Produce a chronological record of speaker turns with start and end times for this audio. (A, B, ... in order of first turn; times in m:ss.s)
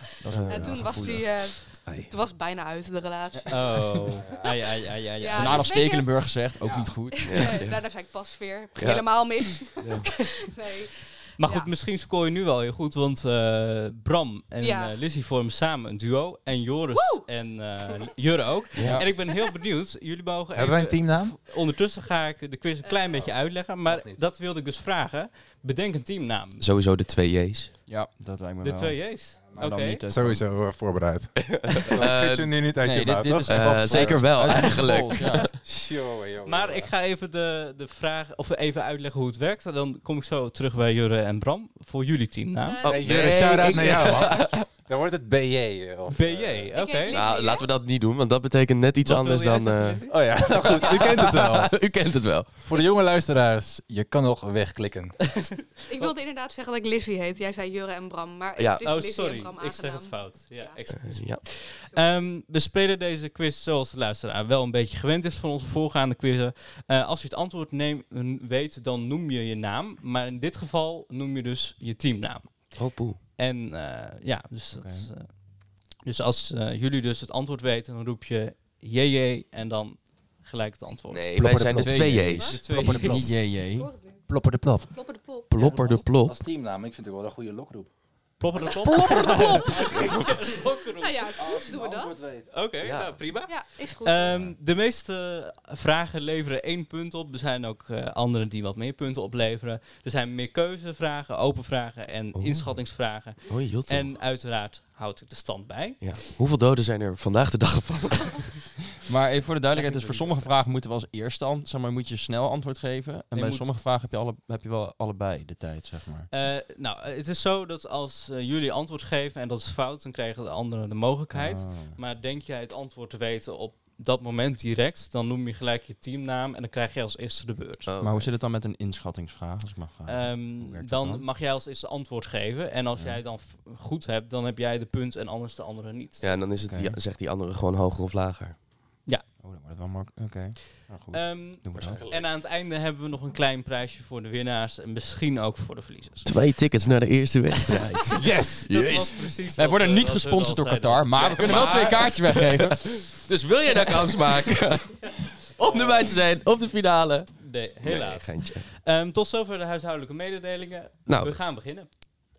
0:00.2-0:01.3 A
0:00.3-0:01.2 B
0:00.5-0:04.6 C
0:01.8-0:02.1 B
0:03.3-0:04.1 A
0:03.5-0:05.7 D
0:04.2-0:04.5 E
0:05.2-0:06.5 C
0:05.3-0:07.6 A
0:06.6-0:06.9 E
0:07.1-0:11.7 C
0:07.2-0:07.9 B
0:08.8-0:10.1 B
0:11.4-0:26.7 D
0:14.6-0:15.0 C
0:17.0-0:17.3 C
0:18.8-0:19.1 B
0:18.8-0:19.1 A
0:19.1-0:19.6 C
0:20.6-0:21.4 E
0:22.8-0:23.4 C
0:23.8-0:24.2 E
0:26.6-0:27.7 B
0:27.9-0:30.5 A
0:28.6-0:30.0 D
0:29.5-0:34.8 E
0:31.5-0:32.7 B
0:32.8-0:35.4 A
0:33.4-0:35.5 B
0:35.6-0:36.9 E
0:36.4-0:42.9 D
0:42.6-0:44.4 C
0:42.8-0:44.6 B
0:42.9-0:46.7 E
0:46.1-0:47.2 D
0:46.7-0:47.7 C
0:47.1-0:52.5 B
0:49.0-0:50.6 D
0:50.1-0:51.9 E
0:52.6-0:55.3 E
0:55.3-0:56.1 D
0:55.9-1:00.8 C
0:58.6-0:58.9 B
0:58.8-1:15.4 D
1:00.9-1:01.4 B
1:12.8-1:13.2 B
1:14.7-1:15.1 A
1:16.0-1:21.2 D
1:21.1-1:22.6 B
1:21.4-1:23.6 E
1:21.6-1:23.9 A
1:22.2-1:22.6 C
1:22.5-1:23.4 D
1:23.6-1:24.3 C
1:24.3-1:24.9 E
1:24.9-1:26.1 C
1:25.5-1:26.4 B
1:25.6-1:25.9 D
1:26.2-1:27.9 E
1:28.4-1:31.4 D
1:28.6-1:30.2 E
1:29.2-1:30.1 C
1:29.9-1:30.4 B
1:31.0-1:32.3 C
1:31.4-1:32.5 E
1:32.5-1:46.0 D
1:32.8-1:33.2 B
1:33.5-1:34.4 C
1:42.4-1:42.7 B
1:43.4-1:44.2 B
1:46.0-1:48.7 B
1:49.1-1:56.3 A
1:49.7-1:50.4 D
1:53.3-1:53.7 D
1:56.3-2:07.9 D
2:01.3-2:02.0 A
2:07.9-2:08.3 B
2:08.0-2:11.2 A
2:10.1-2:16.3 D
2:16.2-2:18.6 B
2:16.7-2:17.0 A
2:19.4-2:22.0 A
2:21.1-2:26.3 D
2:21.8-2:22.3 E
2:26.2-2:29.3 B
2:28.1-2:28.8 E
2:28.7-2:32.2 D
2:29.5-2:33.0 A
2:31.3-2:38.7 B
2:35.6-2:36.2 D
2:37.4-2:41.9 D
2:41.1-2:41.4 B